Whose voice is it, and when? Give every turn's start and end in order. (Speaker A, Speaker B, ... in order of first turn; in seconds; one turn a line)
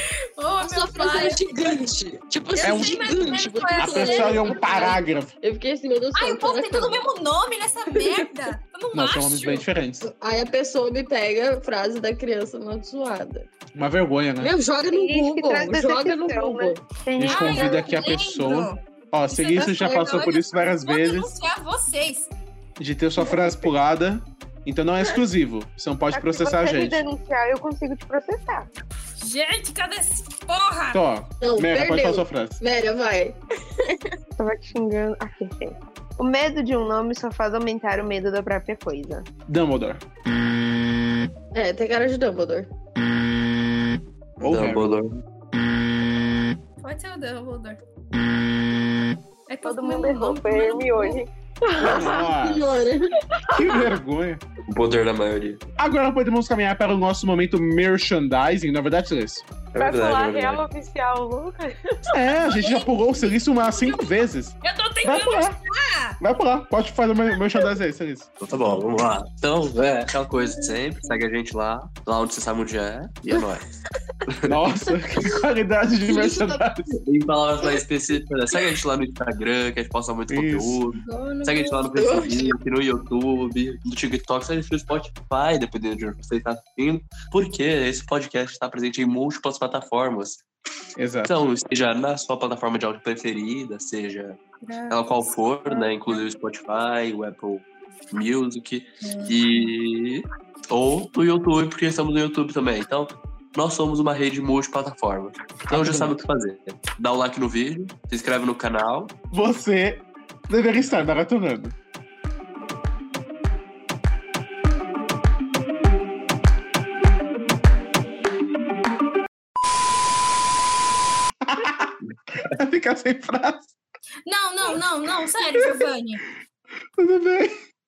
Speaker A: 0.4-1.8
Speaker B: 0.6-7.1
Speaker A: 2.5-4.8
Speaker C: 2.6-3.2
Speaker C: 3.8-5.3
Speaker A: 6.1-9.6
Speaker B: 7.9-8.2
Speaker C: 8.9-10.1
Speaker B: 10.0-13.5
Speaker C: 13.7-14.5
Speaker B: 14.4-16.8
Speaker D: 14.9-17.9
Speaker C: 17.1-21.3
Speaker A: 17.3-18.8
Speaker A: 19.3-22.3
Speaker C: 22.8-27.0
Speaker D: 26.1-28.7
Speaker A: 29.2-31.0
Speaker C: 30.9-32.6
Speaker B: 31.4-34.0
Speaker D: 34.4-39.3
Speaker C: 39.5-40.0
Speaker B: 41.5-42.7
Speaker C: 44.4-44.9
Speaker E: 44.4-45.1
Speaker A: 46.8-47.8
Speaker A: 49.5-51.2
Speaker D: 49.6-52.3
Speaker C: 51.8-52.6
Speaker B: 51.8-53.9
Speaker C: 53.5-54.4
Speaker E: 54.7-55.6
Speaker C: 55.8-59.5
Speaker E: 59.7-60.6
Speaker D: 59.8-62.1
Speaker C: 62.1-65.6
Speaker A: 62.3-66.2
Speaker C: 66.2-68.3
Speaker E: 68.4-73.7
Speaker A: 70.3-71.2
Speaker E: 74.3-74.6
Speaker C: 74.5-76.9
Speaker B: 76.1-76.6
Speaker E: 77.0-90.4
Speaker C: 80.3-80.8
Speaker A: 81.0-81.8
Speaker B: 81.9-82.5
Speaker C: 91.0-91.3
Speaker E: 91.2-109.2
Speaker A: 94.6-96.2
Speaker A: 99.0-99.7
Speaker C: 105.7-106.2
Speaker C: 109.3-111.7
Speaker C: 121.4-123.7
Speaker A: 124.2-126.2
Speaker C: 127.0-127.6